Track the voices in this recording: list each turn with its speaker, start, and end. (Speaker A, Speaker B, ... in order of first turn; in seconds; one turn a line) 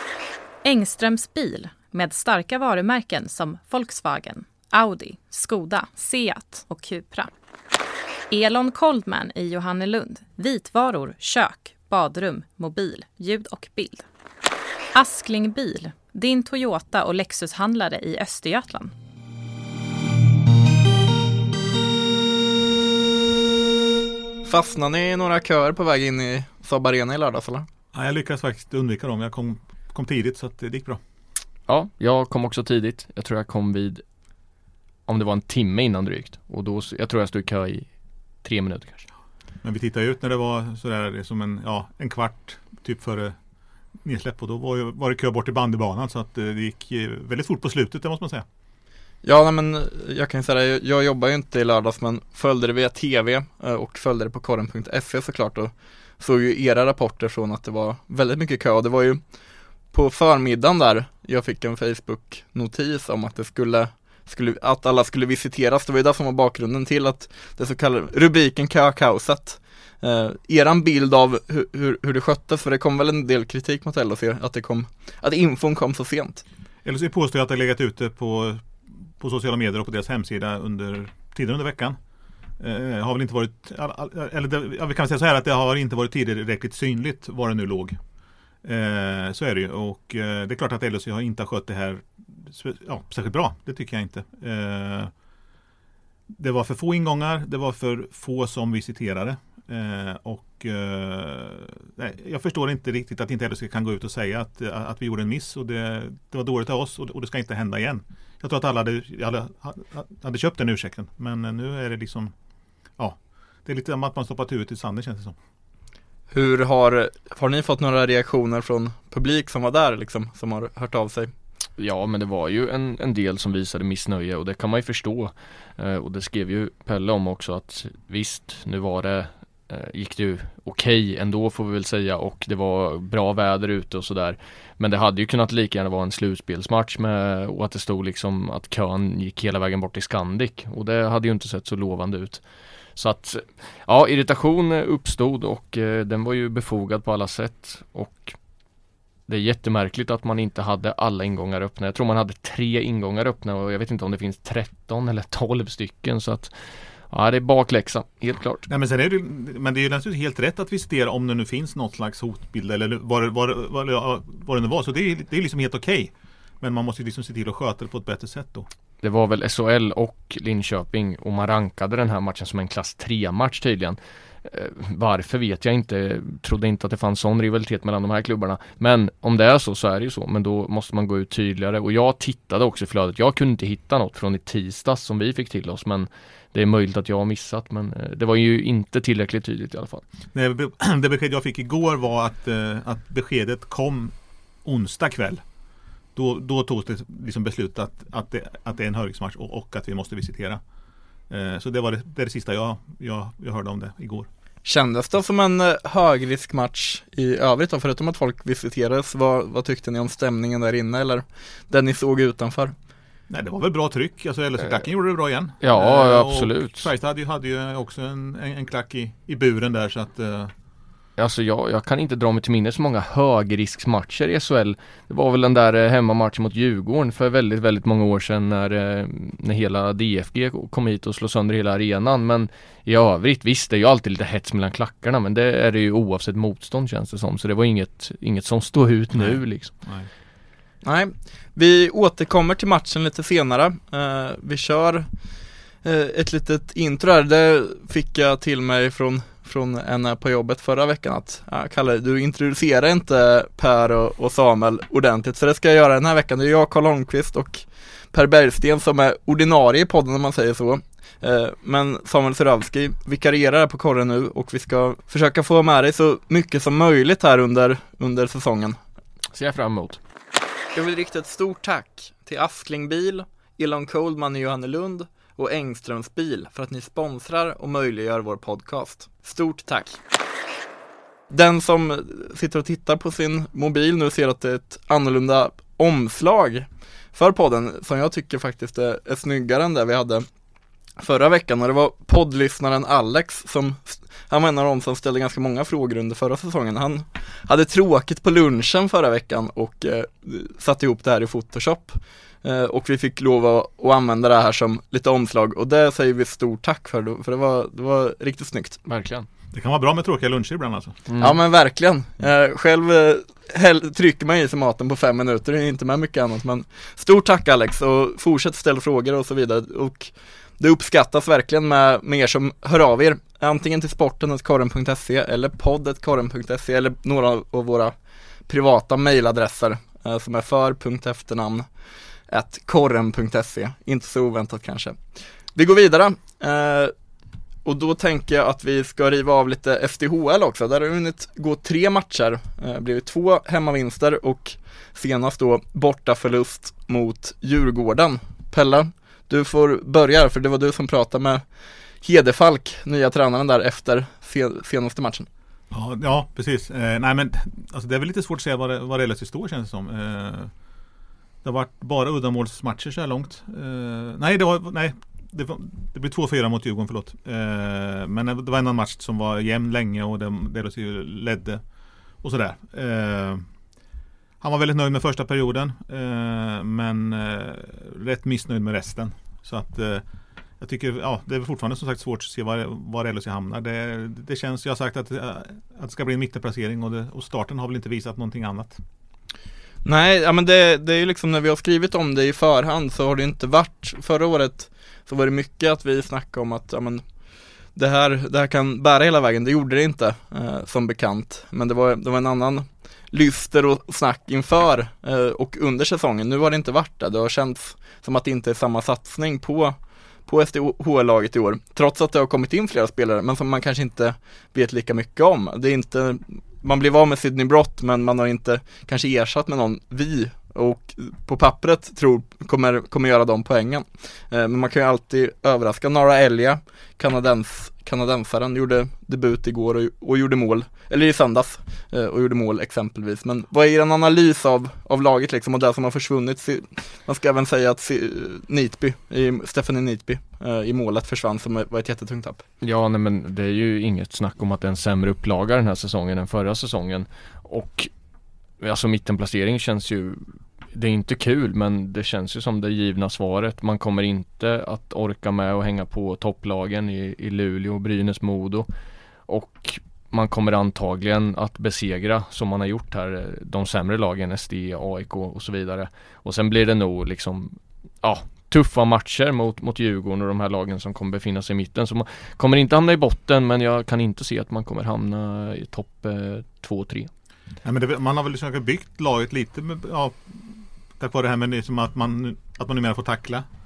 Speaker A: 0.6-7.3
Speaker A: 8.3-14.1
Speaker A: 14.9-18.9
Speaker B: 24.4-27.7
Speaker C: 27.9-31.0
Speaker D: 31.7-34.0
Speaker D: 35.1-37.9
Speaker D: 38.4-39.1
Speaker C: 39.6-43.4
Speaker C: 44.0-48.4
Speaker B: 49.2-59.2
Speaker B: 59.9-76.4
Speaker C: 76.8-82.0
Speaker C: 82.6-88.0
Speaker C: 88.6-95.1
Speaker C: 96.3-112.3
Speaker C: 113.0-115.3
Speaker B: 116.3-121.3
Speaker D: 121.8-142.4
Speaker D: 142.9-148.3
Speaker D: 149.3-156.5
Speaker D: 157.1-158.7
Speaker C: 158.7-168.7
Speaker D: 169.0-190.0
Speaker C: 190.3-195.4
Speaker C: 196.2-200.6
Speaker C: 201.3-204.3
Speaker B: 204.6-212.7
Speaker C: 213.3-220.5
Speaker D: 215.6-216.9
Speaker D: 221.2-239.7
Speaker C: 239.1-240.1
Speaker B: 240.8-245.1
Speaker B: 245.8-268.8
Speaker D: 269.3-270.0
Speaker B: 270.7-280.0
Speaker B: 281.3-290.2
Speaker B: 291.0-308.8
Speaker D: 308.9-309.3
Speaker C: 309.5-311.0
Speaker D: 311.1-311.4
Speaker B: 311.2-327.9
Speaker B: 328.5-331.6
Speaker B: 332.3-335.0
Speaker B: 335.5-336.9
Speaker B: 337.6-351.4
Speaker B: 352.0-355.3
Speaker C: 355.7-360.5
Speaker C: 361.4-371.6
Speaker C: 372.2-373.4
Speaker C: 374.4-380.0
Speaker C: 380.6-388.8
Speaker B: 389.8-397.1
Speaker B: 397.7-442.4
Speaker D: 442.6-447.9
Speaker D: 448.6-450.2
Speaker D: 450.7-458.7
Speaker D: 459.3-477.1
Speaker C: 477.6-483.4